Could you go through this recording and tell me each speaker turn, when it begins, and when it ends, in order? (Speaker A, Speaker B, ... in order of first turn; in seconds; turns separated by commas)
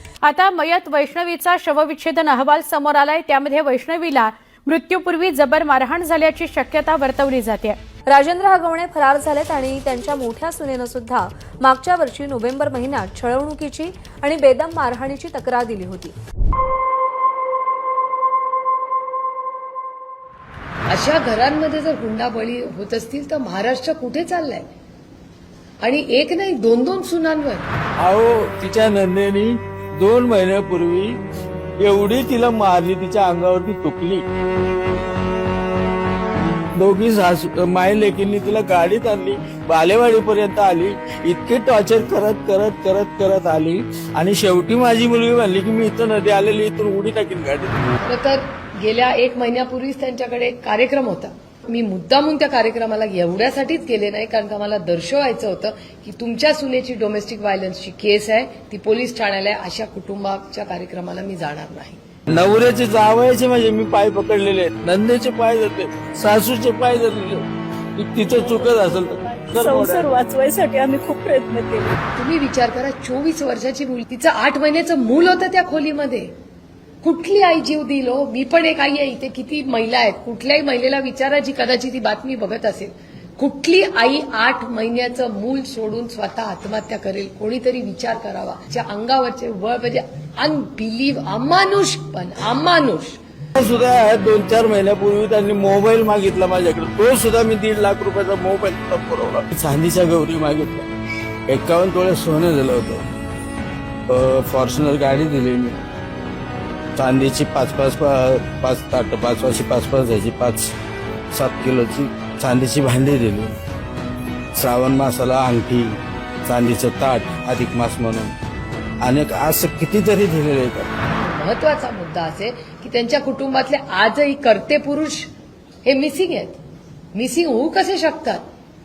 Speaker A: 0.2-7.8, Speaker B: 8.1-16.1, Speaker C: 20.9-24.6, Speaker C: 25.8-27.6, Speaker D: 28.0-31.1, Speaker D: 31.8-34.2, Speaker D: 36.7-47.9, Speaker C: 48.0-62.0, Speaker D: 62.3-67.4, Speaker D: 68.0-70.1, Speaker E: 68.2-71.9, Speaker C: 72.1-76.3, Speaker C: 77.0-93.2, Speaker D: 93.5-100.9, Speaker D: 101.5-103.0, Speaker D: 104.1-105.8, Speaker D: 107.0-110.7, Speaker D: 111.3-113.5, Speaker D: 114.5-118.3, Speaker D: 119.0-120.9, Speaker C: 121.2-125.3, Speaker C: 125.8-126.6, Speaker C: 127.1-128.4